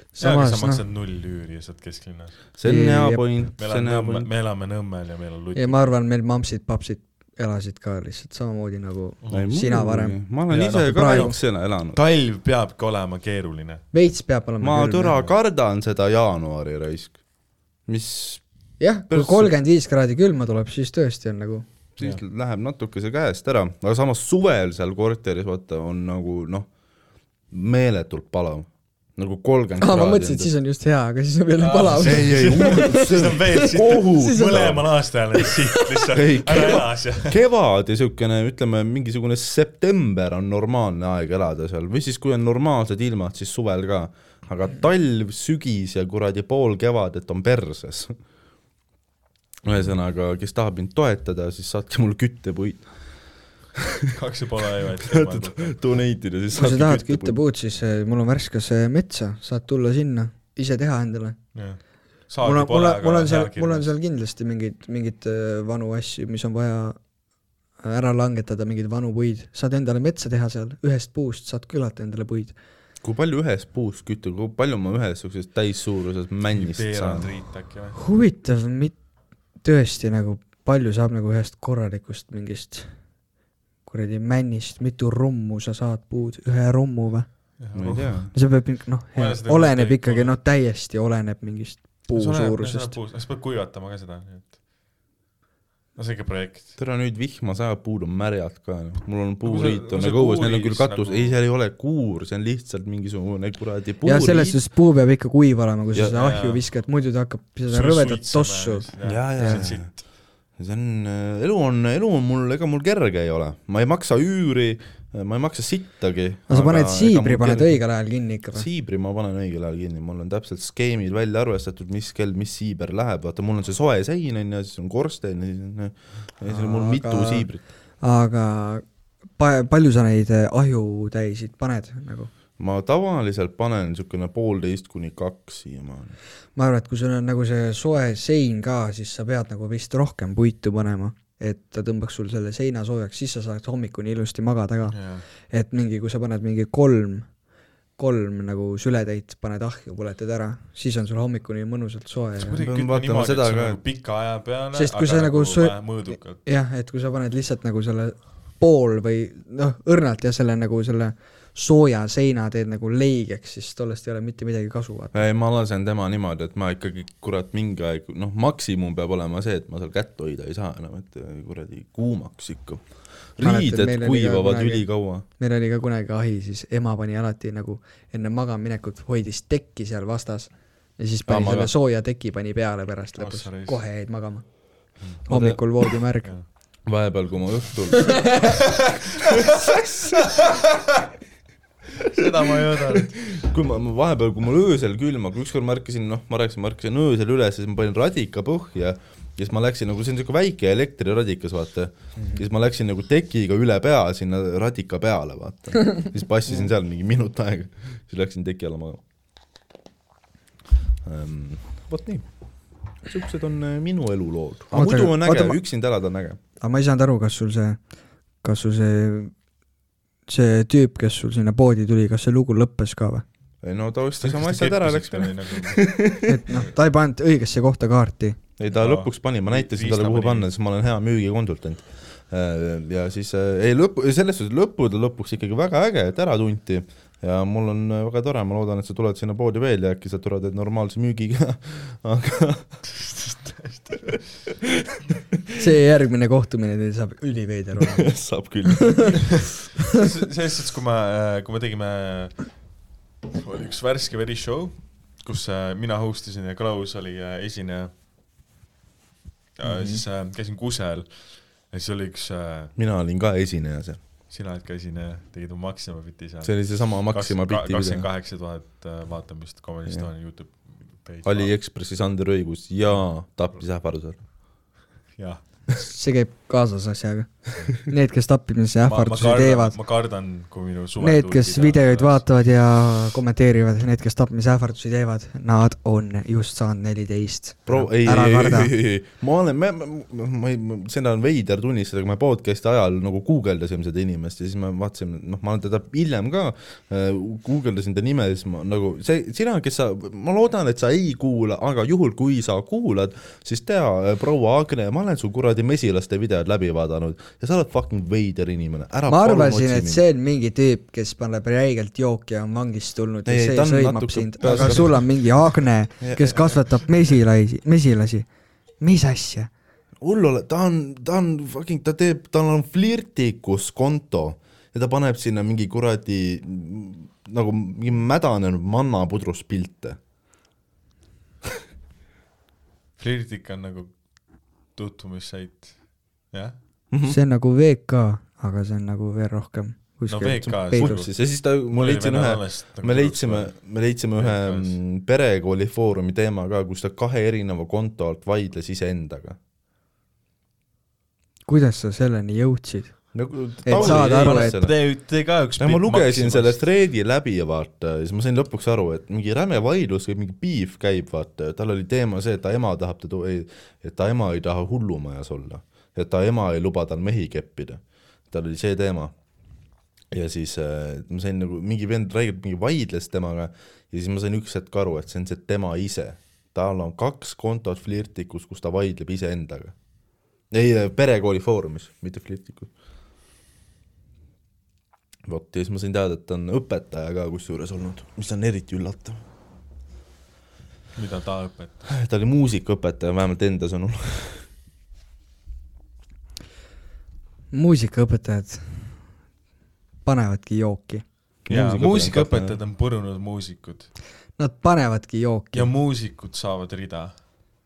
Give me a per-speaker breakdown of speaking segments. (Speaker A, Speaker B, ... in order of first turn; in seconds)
Speaker A: 0.1-0.8, 2.6-3.2, 5.5-10.2, 10.9-11.3, 13.9-15.2, 18.8-21.7, 29.8-34.8, 35.3-36.1, 56.5-61.4, 62.4-67.0, 67.8-72.5, 77.9-78.9, 79.6-82.9, 83.8-87.3, 88.3-93.0, 104.0-109.7, 116.5-118.7, 126.5-127.5, 128.0-128.8, 129.3-132.3, 136.6-144.9, 145.5-147.3, 148.0-152.6, 154.7-155.8, 156.4-165.2, 173.4-174.8, 175.4-184.4, 185.2-186.3, 188.0-188.6, 214.7-215.6, 216.6-217.8, 218.4-219.3, 220.3-223.2, 226.2-228.4, 245.6-248.1, 248.7-249.2, 259.6-260.0, 275.8-279.8, 281.0-288.7, 309.1-318.3, 318.8-319.5, 337.1-341.0, 351.4-352.9, 353.6-354.6, 397.5-399.0, 400.0-401.0, 404.4-405.7
Speaker B: 0.2-2.4, 3.6-5.8, 9.2-9.5, 10.5-11.4, 11.9-13.8, 31.6-37.4, 54.1-55.8, 62.3-63.9, 76.5-78.0, 87.6-88.2, 89.2-90.4, 92.1-94.5, 96.0-96.7, 99.4-101.4, 106.0-106.7, 107.7-110.0, 144.9-145.2, 152.4-156.4, 183.2-183.8, 188.4-189.6, 190.1-190.8, 192.0-193.2, 224.2-225.9, 228.7-230.5, 242.8-244.2, 249.2-252.5, 253.3-257.9, 259.6-262.7, 264.3-271.5, 275.2-275.4, 278.8-282.3, 333.0-333.9, 334.8-335.7, 340.1-341.1, 341.7-343.5, 344.2-344.7, 353.7-356.6, 390.9-391.8, 401.5-403.9, 405.5-407.1
Speaker C: 2.5-4.3, 9.3-12.0, 14.6-17.2, 17.9-18.4, 19.1-19.5, 22.0-26.7, 27.5-30.5, 32.0-34.8, 36.1-48.1, 49.6-52.8, 53.8-54.1, 55.0-57.4, 73.0-77.3, 87.8-88.3, 96.8-104.6, 109.0-109.9, 110.6-117.8, 118.5-127.6, 132.6-136.1, 152.6-153.8, 165.1-172.8, 173.4-175.2, 181.3-181.7, 185.3-185.6, 186.9-188.6, 189.2-190.2, 192.2-209.0, 211.0-212.2, 213.1-216.4, 223.6-226.4, 228.6-242.8, 247.9-249.3, 262.8-264.0, 266.4-268.1, 271.2-274.2, 287.7-310.0, 313.2-315.1, 316.0-316.5, 320.0-330.0, 336.9-337.2, 340.7-349.4, 353.1-354.8, 355.6-369.1, 370.1-379.7, 380.5-382.7, 385.3-389.2, 391.9-394.4, 401.5-402.6